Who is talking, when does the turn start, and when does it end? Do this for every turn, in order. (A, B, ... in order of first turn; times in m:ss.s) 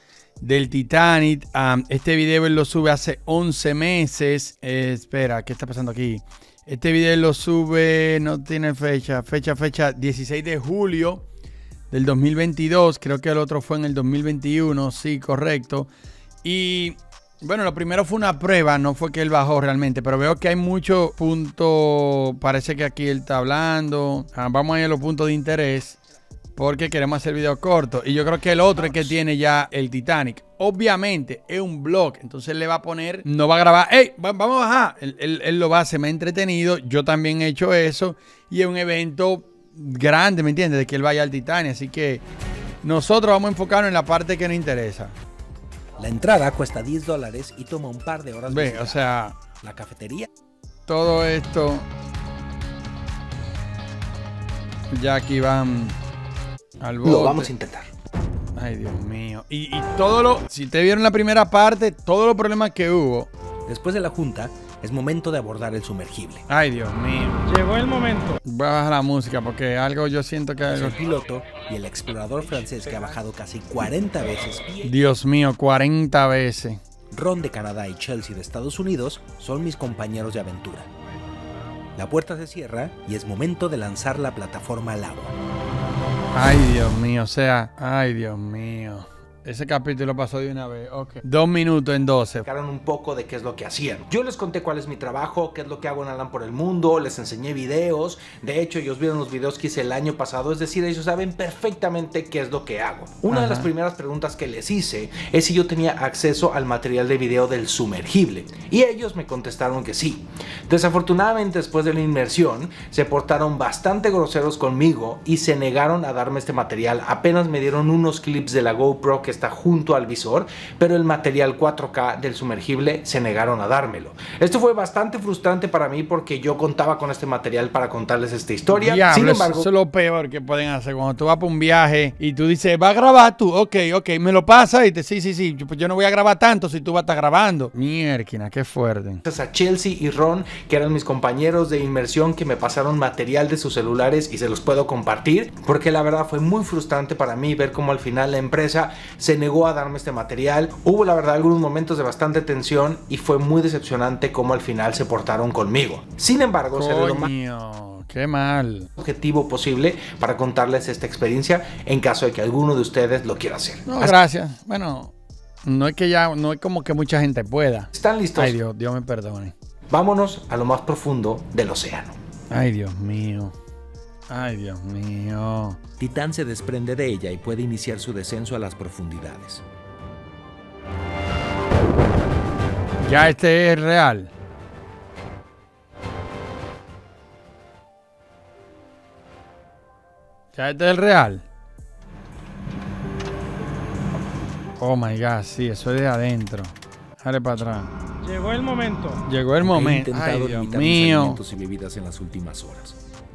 0:00.4-0:11.2 A
0:11.9-0:15.9 A
0:16.4-0:26.0 A
0:26.6-0:42.2 A
0:42.8-0:45.2 A
0:46.0-0:49.1 B
0:48.5-0:49.4 A
0:49.6-0:50.3 B
0:50.9-0:51.9 A
0:54.9-0:56.0 A
0:56.8-0:57.5 A
0:57.0-0:57.9 B
0:58.6-1:03.3 A
1:03.7-1:06.4 B
1:06.5-1:07.4 A
1:07.4-1:08.4 C
1:08.4-1:11.0 A
1:10.7-1:15.0 B
1:14.8-1:16.8 A
1:17.1-1:20.9 B
1:22.0-1:25.4 B
1:26.3-1:32.4 A
1:32.4-2:09.7 B
1:43.3-1:43.7 A
2:08.7-2:19.2 A
2:19.2-2:37.3 B
2:36.7-2:38.9 A
2:39.0-2:44.2 B
2:43.9-2:45.1 A
2:45.6-2:49.5 A
2:47.9-2:48.6 B
2:49.9-2:52.2 B
2:52.5-2:53.5 A
2:54.3-2:55.8 A
2:56.0-2:59.6 B
3:03.0-3:04.3 A
3:10.5-3:11.4 A
3:14.8-3:17.9 A
3:18.2-3:19.2 C
3:19.2-3:21.4 A
3:19.6-3:23.0 B